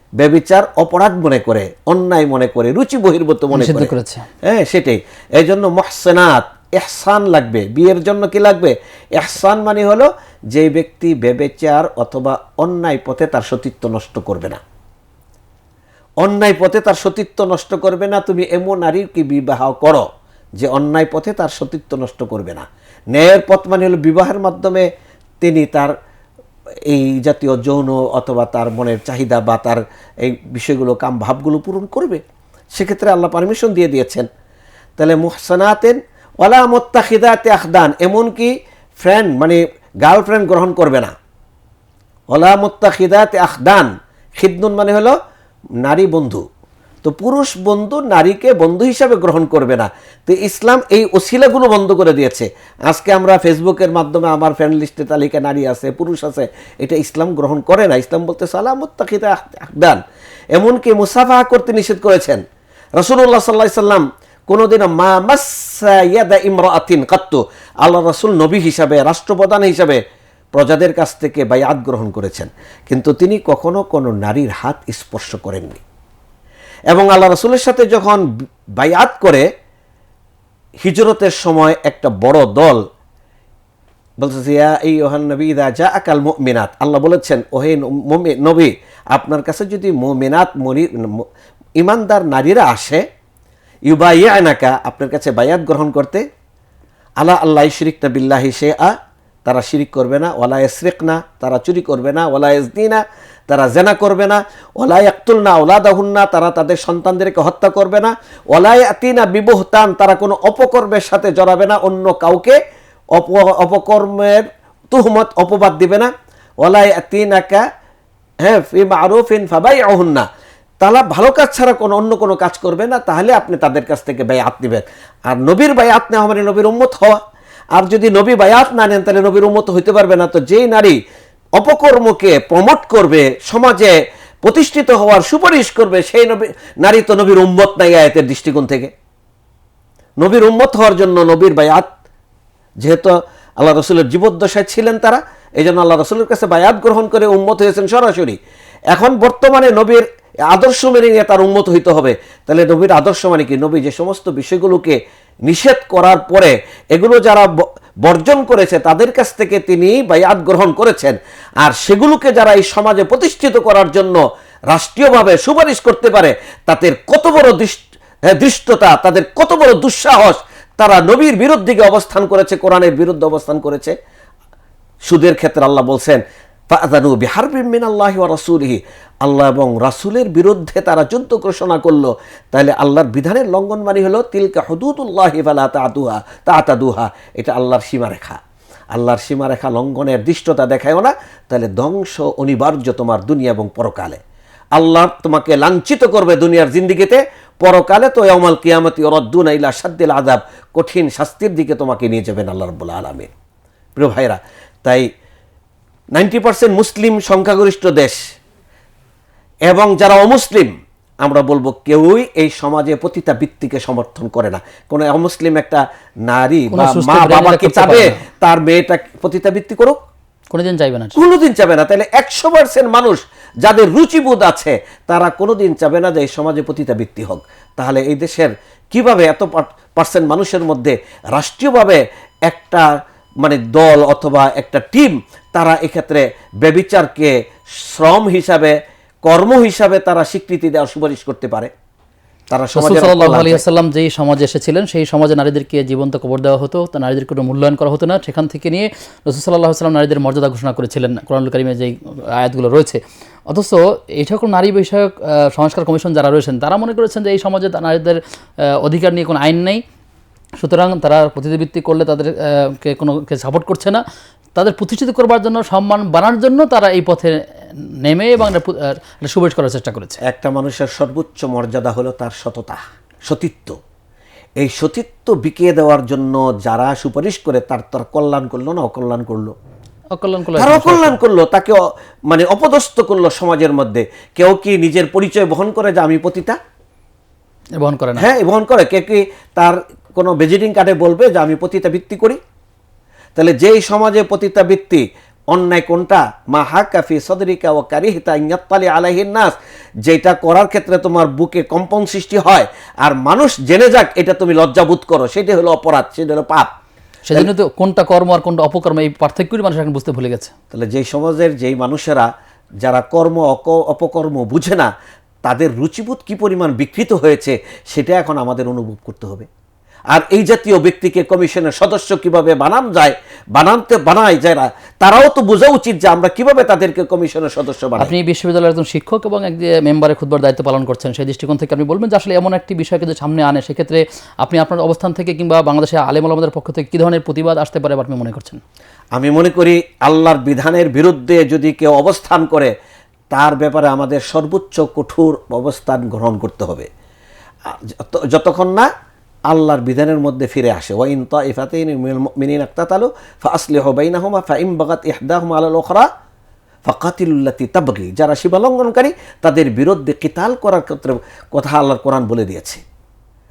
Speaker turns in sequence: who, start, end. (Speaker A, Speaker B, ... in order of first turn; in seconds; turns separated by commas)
Speaker A: 0.2-3.9, Speaker B: 3.5-4.2, Speaker A: 4.5-14.6, Speaker A: 16.2-20.1, Speaker A: 20.6-24.9, Speaker A: 25.4-25.9, Speaker A: 26.9-32.2, Speaker A: 32.8-34.3, Speaker A: 35.0-41.1, Speaker A: 42.3-45.2, Speaker A: 45.8-46.4, Speaker A: 47.0-60.0, Speaker A: 60.5-62.4, Speaker A: 63.0-70.0, Speaker A: 70.5-75.8, Speaker A: 76.9-78.2, Speaker A: 78.8-79.5, Speaker A: 80.8-82.8, Speaker A: 84.2-91.2, Speaker A: 91.8-93.0, Speaker A: 93.9-96.2, Speaker A: 97.2-99.0, Speaker A: 99.5-112.6, Speaker A: 113.2-116.1, Speaker A: 116.6-117.6, Speaker A: 118.5-120.2, Speaker A: 120.8-127.2, Speaker A: 127.8-131.0, Speaker A: 131.6-138.9, Speaker A: 140.2-141.9, Speaker A: 142.8-148.4, Speaker A: 148.9-174.0, Speaker A: 175.1-188.4, Speaker A: 188.9-194.2, Speaker A: 194.8-203.3, Speaker A: 204.0-205.1, Speaker A: 206.2-208.2, Speaker A: 209.7-210.7, Speaker A: 211.2-220.0, Speaker B: 216.7-218.2, Speaker B: 220.5-221.2, Speaker A: 221.2-232.9, Speaker A: 233.4-241.7, Speaker A: 242.5-243.6, Speaker B: 242.8-253.0, Speaker B: 253.5-258.2, Speaker B: 258.8-259.8, Speaker B: 260.6-264.0, Speaker B: 264.6-267.4, Speaker B: 268.0-270.2, Speaker A: 270.3-273.8, Speaker A: 274.6-279.5, Speaker B: 280.2-281.2, Speaker A: 280.6-281.8, Speaker A: 282.3-286.6, Speaker B: 287.8-288.3, Speaker A: 288.2-292.4, Speaker A: 293.4-299.5, Speaker A: 300.1-306.7, Speaker B: 307.2-310.5, Speaker A: 310.7-312.3, Speaker A: 312.8-314.9, Speaker A: 315.4-319.5, Speaker A: 320.1-328.1, Speaker B: 328.0-338.6, Speaker A: 339.1-342.7, Speaker A: 343.3-346.9, Speaker A: 347.7-348.9, Speaker A: 349.5-356.1, Speaker A: 356.9-362.8